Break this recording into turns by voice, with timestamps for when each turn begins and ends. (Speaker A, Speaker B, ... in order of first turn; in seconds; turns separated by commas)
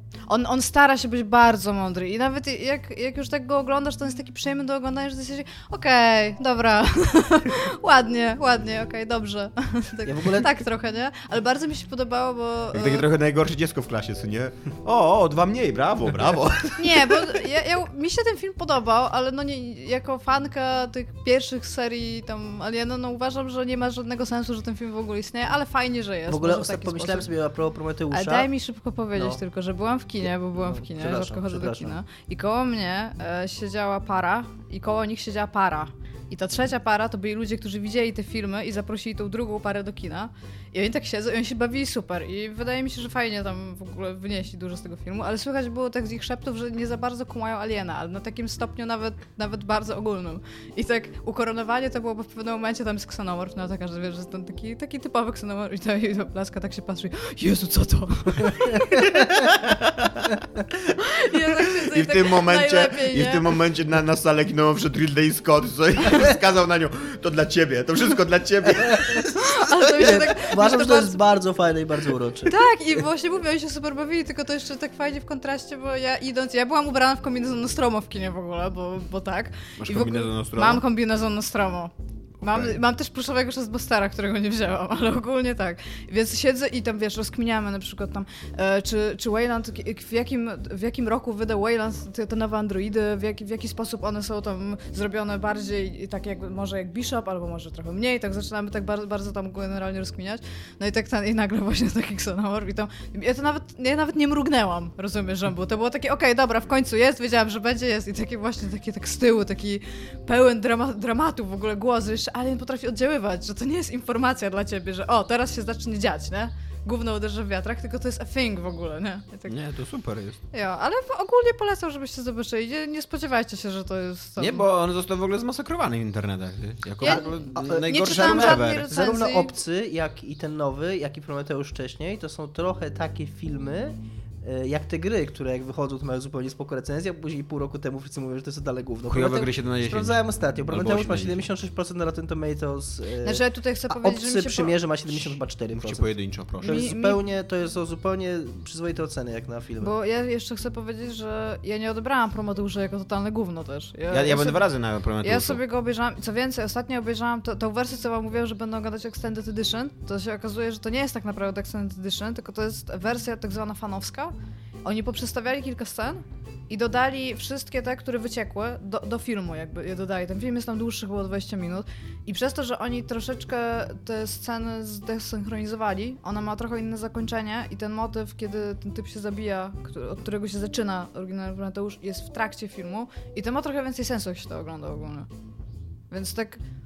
Speaker A: 0.3-13.1, Speaker B: 10.0-10.5, Speaker C: 12.7-17.4, Speaker A: 16.8-27.3, Speaker B: 26.3-28.5, Speaker A: 28.1-59.1, Speaker B: 29.1-29.4, Speaker B: 30.2-32.0, Speaker C: 59.0-70.2, Speaker A: 61.0-63.6, Speaker A: 69.3-71.2, Speaker B: 70.0-72.6, Speaker A: 72.5-119.5, Speaker C: 79.8-80.8, Speaker C: 82.4-82.8, Speaker C: 119.5-120.4, Speaker A: 120.5-124.6, Speaker C: 124.4-128.8, Speaker A: 127.0-129.5, Speaker B: 127.0-149.9, Speaker C: 139.1-141.4, Speaker A: 143.2-144.7, Speaker C: 145.8-146.8, Speaker A: 146.6-147.2, Speaker A: 149.8-154.6, Speaker C: 154.1-155.6, Speaker A: 155.2-185.3, Speaker A: 186.1-186.6